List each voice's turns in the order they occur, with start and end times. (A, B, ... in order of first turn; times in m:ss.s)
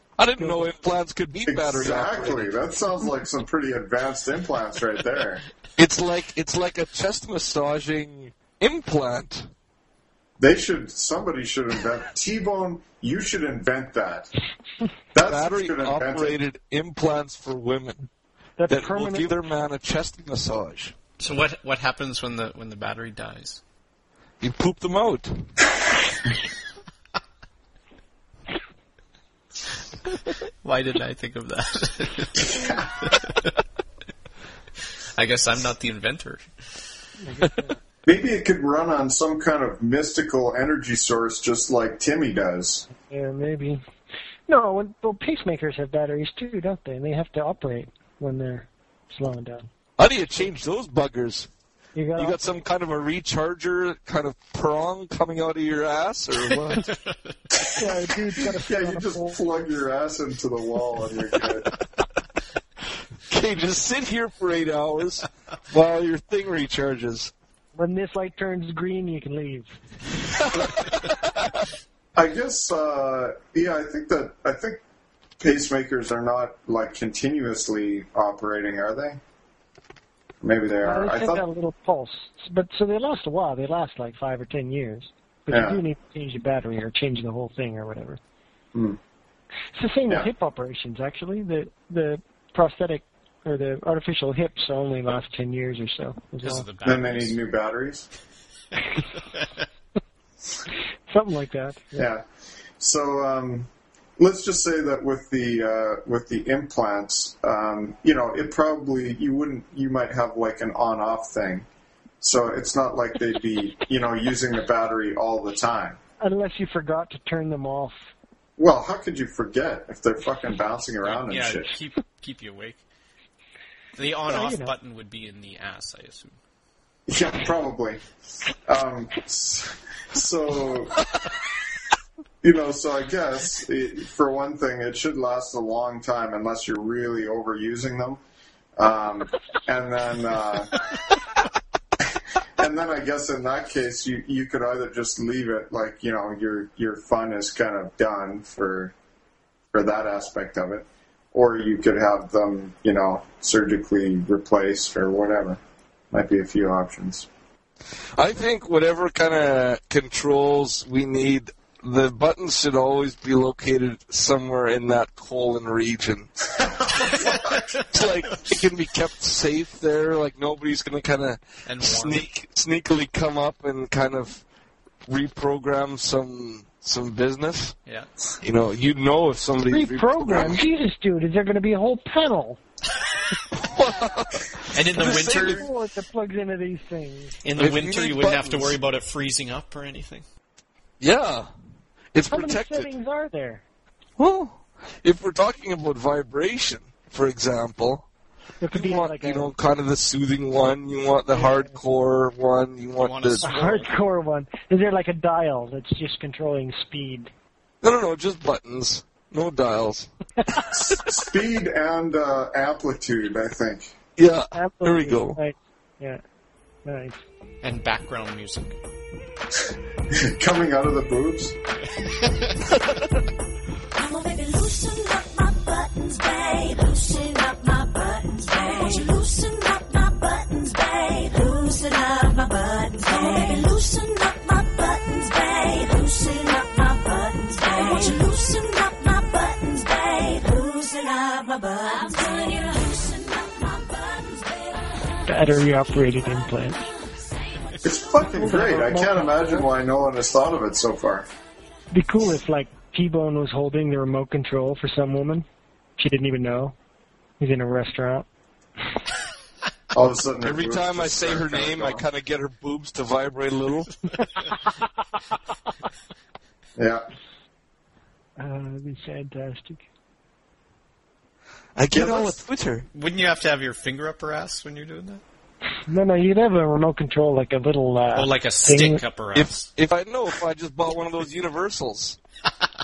0:00.2-0:02.5 A
0:00.4-0:00.7 B
0:01.5-0:05.4 C
0:05.8-0:09.5 A
0:10.4-0:14.3 C
0:15.1-0:16.4 C
0:15.2-0:18.0 A
0:18.6-0:19.4 B
0:18.7-0:21.0 A
0:21.2-0:23.6 D
0:24.4-0:25.5 A
0:30.1-0:33.3 D
0:32.5-0:32.8 C
0:35.2-0:36.5 D
0:37.2-0:37.8 B
0:38.0-0:42.9 C
0:42.9-0:43.8 B
0:44.5-0:49.7 B
0:50.0-0:51.5 A
0:51.9-0:52.4 B
0:52.2-0:56.8 A
0:56.4-0:57.6 D
0:57.7-0:59.4 B
0:58.5-1:01.7 C
1:03.3-1:07.3 A
1:07.7-1:09.7 B
1:10.5-1:11.6 A
1:12.1-1:14.8 C
1:15.4-1:19.2 C
1:20.4-1:21.4 C
1:20.8-1:28.2 B
1:25.5-1:25.8 C
1:29.7-1:36.7 B
1:36.4-1:37.4 D
1:36.8-1:38.1 C
1:41.1-1:42.1 B
1:42.0-1:42.2 C
1:42.8-1:51.6 C
1:52.2-1:56.0 C
1:56.2-1:58.1 B
1:58.6-2:01.7 C
2:01.0-2:02.8 D
2:03.9-2:06.4 D
2:04.3-2:04.7 B
2:07.1-2:08.0 C
2:08.6-2:11.0 C
2:12.4-2:18.2 C
2:18.8-2:20.7 C
2:22.6-2:28.9 C
2:29.7-2:35.6 C
2:36.1-2:37.3 C
2:38.2-2:46.3 A
2:46.6-2:47.7 C
2:47.9-2:54.4 A
2:51.6-2:52.2 D
2:55.1-2:57.7 A
2:58.4-3:00.6 A
2:59.7-3:02.6 B
3:03.5-3:05.7 A
3:04.7-3:05.7 D
3:05.0-3:07.4 B
3:07.4-3:10.2 D
3:07.6-3:08.8 A
3:11.0-3:11.5 A
3:12.1-3:12.9 A
3:12.3-3:13.6 B
3:14.2-3:18.0 A
3:18.6-3:19.5 B
3:18.7-3:23.4 A
3:21.3-3:21.7 B
3:23.0-3:23.9 D
3:23.4-3:27.3 B
3:27.8-3:30.1 A
3:30.7-3:33.9 C
3:34.2-3:35.4 A
3:34.5-3:36.2 B
3:36.8-3:37.2 B
3:37.6-3:38.8 D
3:40.2-3:41.5 C
3:43.9-4:04.8 E
4:05.2-4:06.9 B
4:07.8-4:11.2 C
4:08.4-4:09.7 B
4:11.9-4:15.4 B
4:16.0-4:16.7 B
4:17.4-4:18.3 B
4:19.9-4:22.1 C
4:20.4-4:23.9 A
4:26.8-4:27.0 C
4:28.4-4:29.8 B
4:31.8-4:32.8 A
4:31.9-4:32.4 C
4:32.9-4:35.2 D
4:35.9-4:39.0 B
4:38.1-4:39.7 D
4:39.3-4:42.2 A